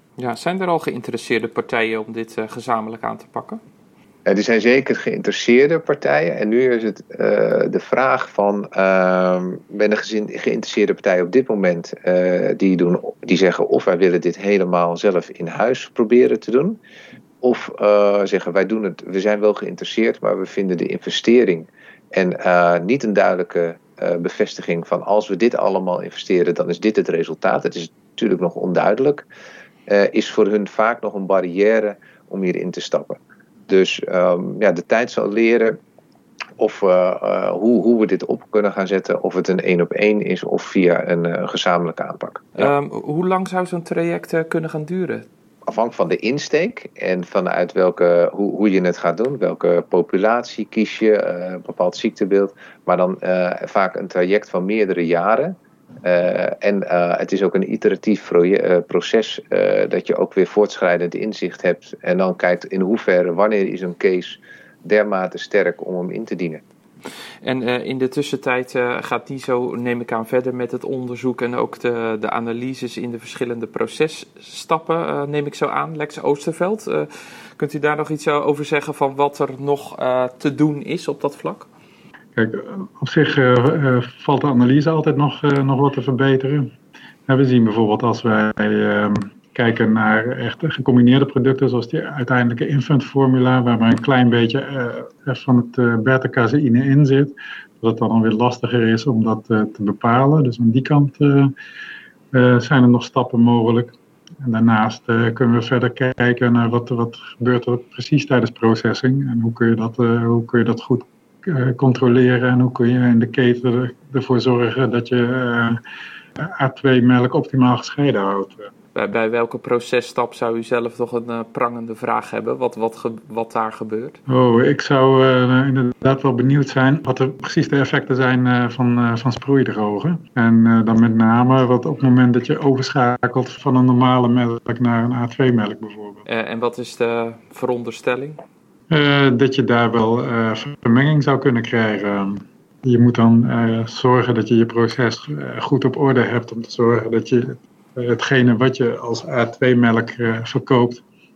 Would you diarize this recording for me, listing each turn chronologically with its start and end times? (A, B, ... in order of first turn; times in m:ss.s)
0:00.2-0:03.6 A
0:04.3-0:16.8 B
0:17.4-0:29.3 B
0:29.9-0:35.8 B
0:36.6-0:42.7 B
0:42.6-0:45.3 A
0:45.7-1:06.6 B
1:07.4-1:21.7 A
1:22.4-1:26.7 C
1:27.3-1:41.5 C
1:42.3-1:55.8 C
1:56.4-1:58.7 C
1:58.9-2:04.2 A
2:04.3-2:16.2 C
2:16.3-2:18.4 A
2:18.9-2:31.0 C